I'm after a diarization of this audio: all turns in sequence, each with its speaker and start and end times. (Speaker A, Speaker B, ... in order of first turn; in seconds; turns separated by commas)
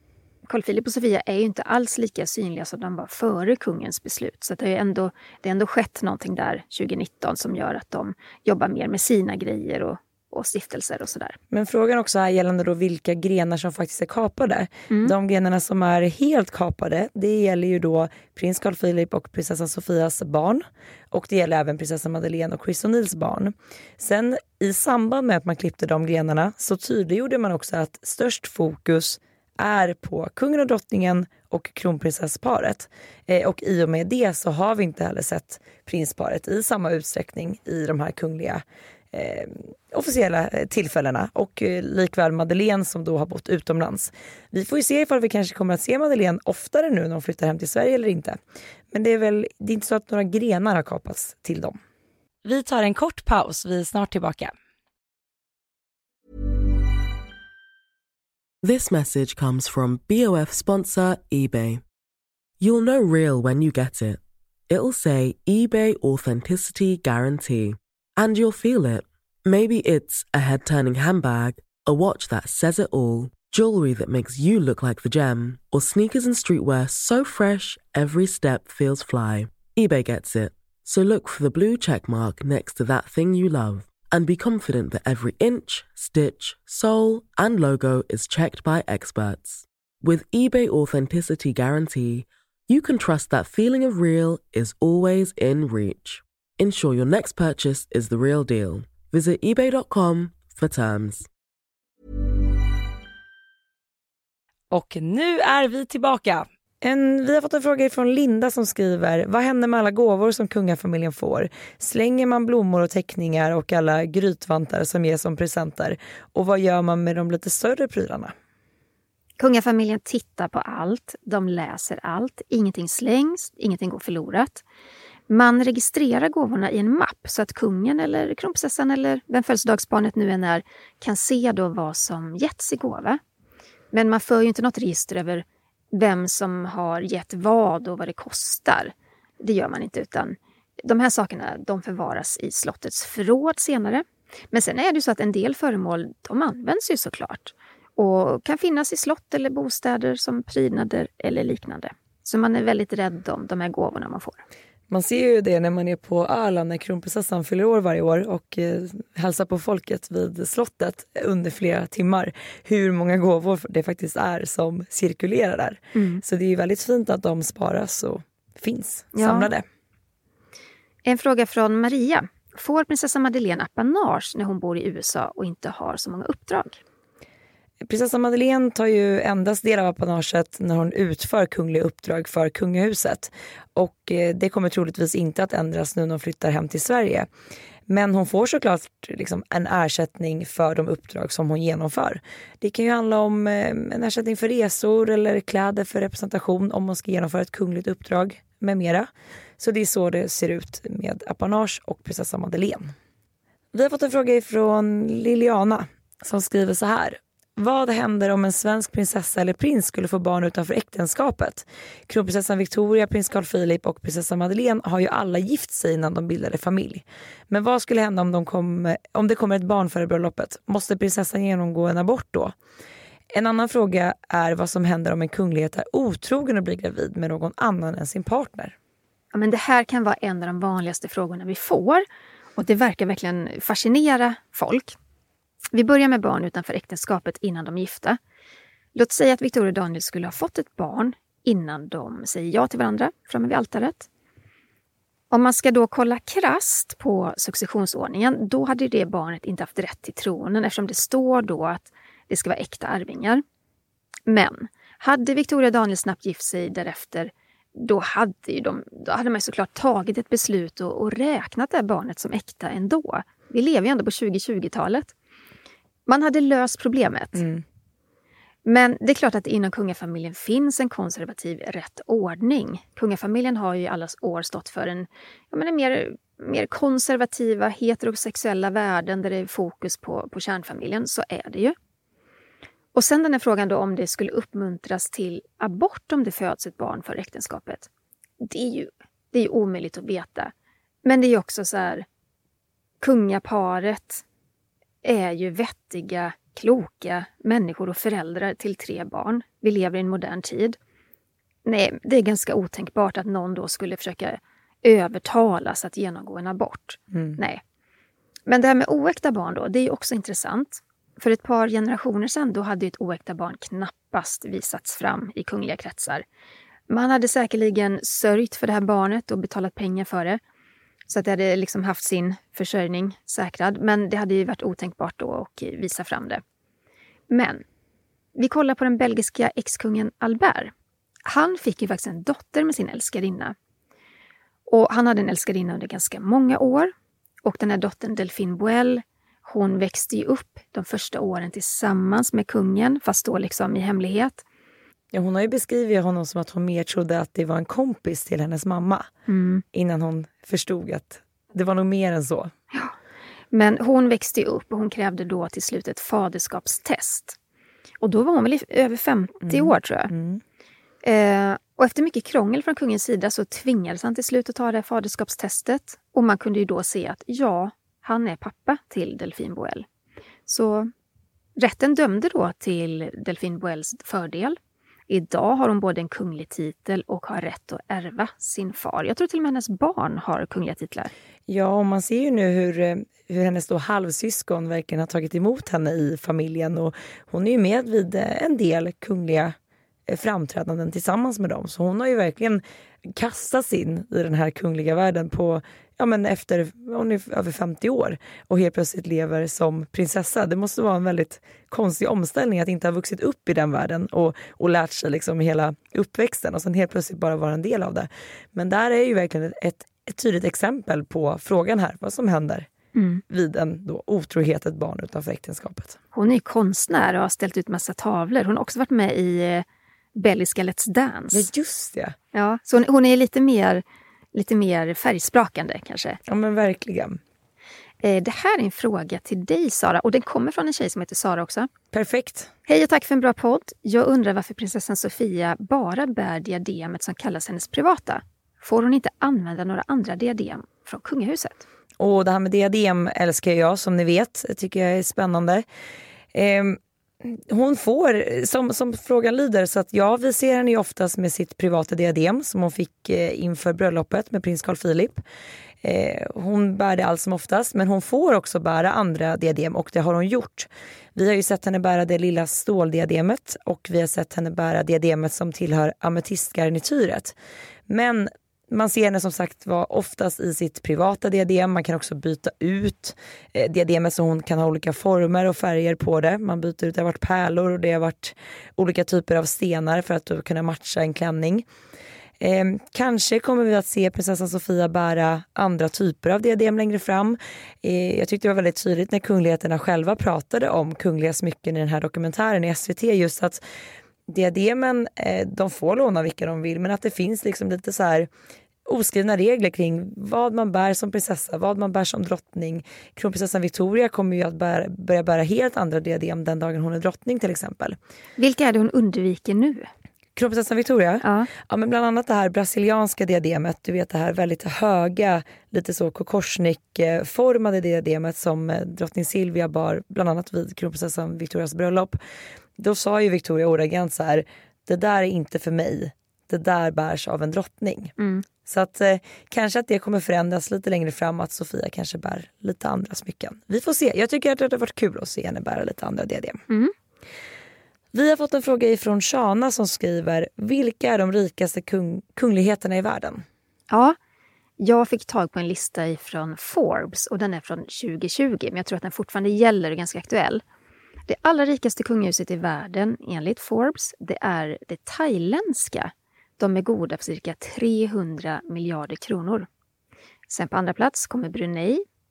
Speaker A: 0.5-11.4, Speaker B: 11.5-48.4, Speaker A: 14.9-15.1, Speaker B: 48.9-51.8, Speaker B: 52.4-54.5, Speaker C: 58.6-61.8, Speaker C: 62.6-101.3, Speaker B: 104.7-118.3, Speaker A: 119.4-124.6, Speaker A: 125.3-133.2, Speaker A: 133.9-154.4, Speaker B: 154.9-169.6, Speaker A: 165.9-166.2, Speaker A: 169.1-169.5, Speaker A: 171.0-176.8, Speaker B: 177.8-187.3, Speaker B: 187.9-199.1, Speaker B: 199.6-202.9, Speaker B: 203.7-222.5, Speaker B: 223.3-228.7, Speaker A: 229.3-232.0, Speaker A: 232.6-234.9, Speaker A: 235.7-238.2, Speaker A: 238.9-244.1, Speaker A: 245.3-253.4, Speaker A: 254.2-265.1, Speaker A: 266.1-267.4, Speaker B: 267.3-267.6, Speaker A: 268.6-281.7, Speaker A: 282.9-287.9, Speaker A: 288.4-290.5, Speaker A: 291.0-292.0, Speaker A: 293.0-294.2, Speaker A: 295.0-300.8, Speaker A: 301.6-307.6, Speaker B: 307.1-307.4, Speaker A: 308.5-316.2, Speaker A: 316.9-320.4, Speaker A: 321.1-326.4, Speaker A: 327.3-327.6, Speaker A: 328.4-330.7, Speaker A: 331.2-333.5, Speaker A: 334.7-336.9, Speaker A: 337.4-344.4, Speaker B: 345.1-349.1, Speaker A: 349.3-349.6, Speaker B: 349.7-352.5, Speaker A: 353.5-357.4, Speaker A: 358.0-360.1, Speaker B: 359.5-360.4, Speaker A: 361.0-369.9, Speaker A: 370.5-370.9, Speaker A: 371.6-374.6, Speaker A: 375.1-381.1, Speaker B: 381.5-389.5, Speaker B: 390.1-412.7, Speaker A: 412.9-413.2, Speaker B: 413.3-416.0, Speaker A: 416.1-421.5, Speaker B: 421.3-422.1, Speaker A: 422.3-423.8, Speaker A: 424.3-426.2, Speaker B: 426.3-427.2, Speaker A: 428.0-431.7, Speaker B: 431.9-432.5, Speaker A: 432.7-441.6, Speaker B: 442.0-445.6, Speaker B: 446.3-455.2, Speaker B: 455.8-467.3, Speaker B: 467.9-481.6, Speaker B: 482.4-493.6, Speaker B: 494.3-498.3, Speaker B: 498.8-508.0, Speaker A: 508.4-509.9, Speaker B: 510.4-522.2, Speaker A: 511.2-511.5, Speaker B: 522.8-528.1, Speaker A: 528.2-528.5, Speaker B: 528.6-536.6, Speaker B: 538.1-543.4, Speaker A: 543.9-544.2, Speaker A: 544.8-550.6, Speaker A: 551.3-559.7, Speaker A: 560.5-562.0